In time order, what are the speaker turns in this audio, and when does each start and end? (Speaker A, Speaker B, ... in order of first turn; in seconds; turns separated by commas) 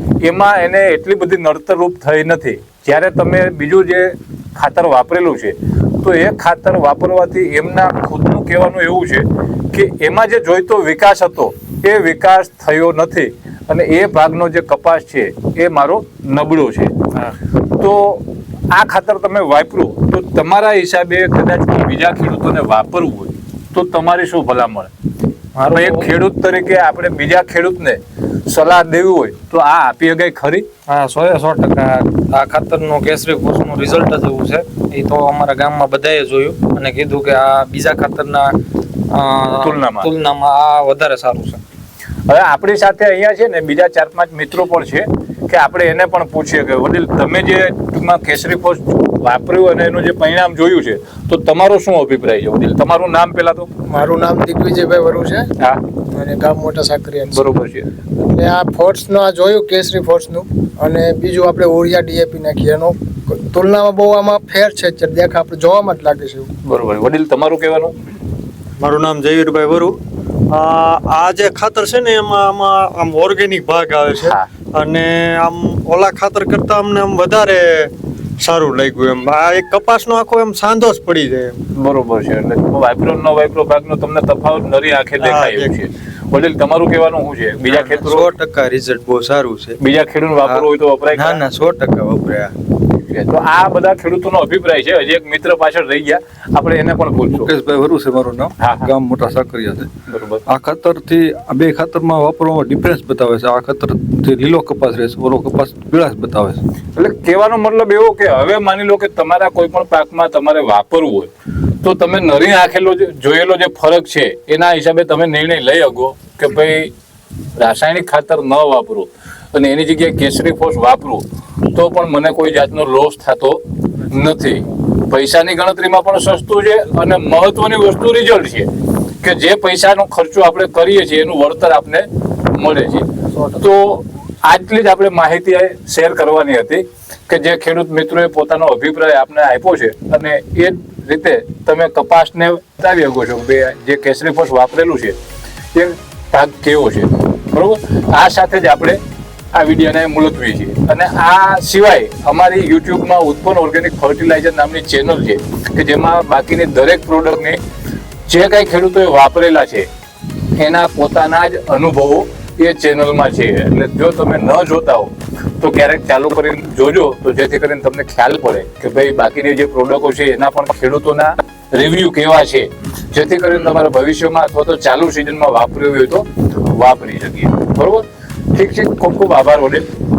Speaker A: 0.2-16.9, Speaker A: 17.7-24.9, Speaker B: 25.6-26.1, Speaker A: 25.7-30.6, Speaker B: 30.9-38.5, Speaker B: 39.1-41.6, Speaker A: 39.6-40.1, Speaker A: 42.3-53.7, Speaker C: 53.9-57.4, Speaker A: 57.3-57.9, Speaker C: 58.2-66.5, Speaker A: 66.7-67.9, Speaker D: 68.8-70.0, Speaker D: 70.5-81.5, Speaker A: 74.2-74.4, Speaker A: 81.8-88.3, Speaker D: 85.2-85.7, Speaker E: 87.7-89.8, Speaker A: 89.8-91.4, Speaker E: 90.4-92.5, Speaker A: 92.9-97.5, Speaker F: 97.3-99.9, Speaker A: 98.6-98.9, Speaker A: 100.1-100.4, Speaker F: 100.5-106.6, Speaker A: 107.0-111.3, Speaker A: 111.8-116.9, Speaker A: 117.6-128.7, Speaker A: 129.2-145.2, Speaker A: 145.7-149.0, Speaker A: 149.5-157.6, Speaker A: 158.3-159.9, Speaker A: 160.6-179.9